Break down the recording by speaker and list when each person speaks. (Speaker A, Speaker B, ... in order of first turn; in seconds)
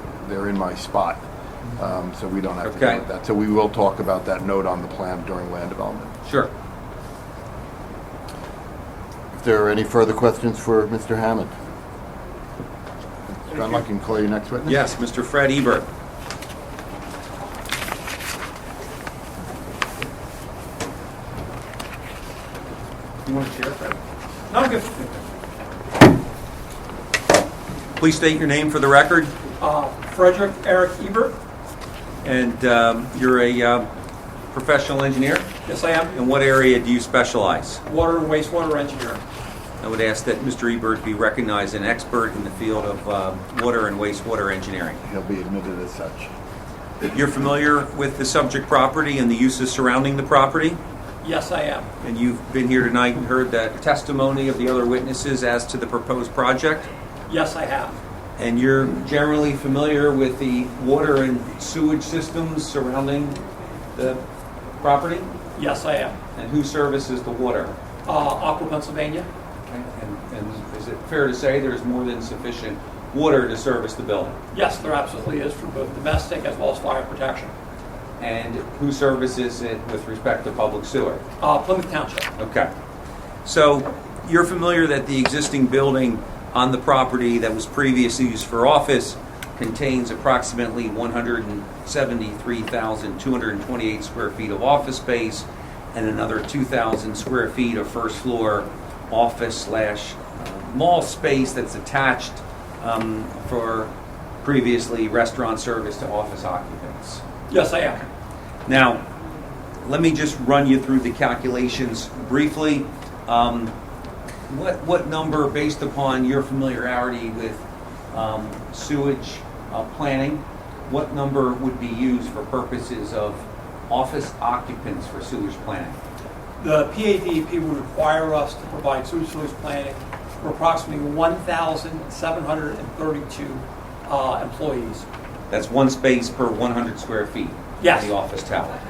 Speaker A: 0.2-1.2, 1.8-6.1, 9.3-11.5, 13.3-14.8, 45.0-46.3
Speaker B: 2.6-3.0, 6.2-6.5, 14.7-15.9, 23.2-24.0, 28.0-29.3, 32.2-33.9, 34.5-35.5, 36.1-37.8, 39.8-45.0, 47.1-50.8, 52.0-56.9, 58.4-63.4, 64.0-64.2, 64.8-65.3, 66.4-67.8, 69.7-74.4, 78.2-81.2, 82.4-82.7, 83.4-103.9, 104.4-107.2, 108.7-109.0, 109.8-113.7, 114.5-126.0, 135.5-138.8
Speaker C: 24.5-25.1, 29.6-31.4, 35.7-36.1, 37.9-39.2, 51.2-51.9, 57.3-58.0, 65.6-66.2, 68.0-69.3, 74.5-77.5, 81.4-82.3, 107.5-108.1, 126.6-135.1, 137.8-138.1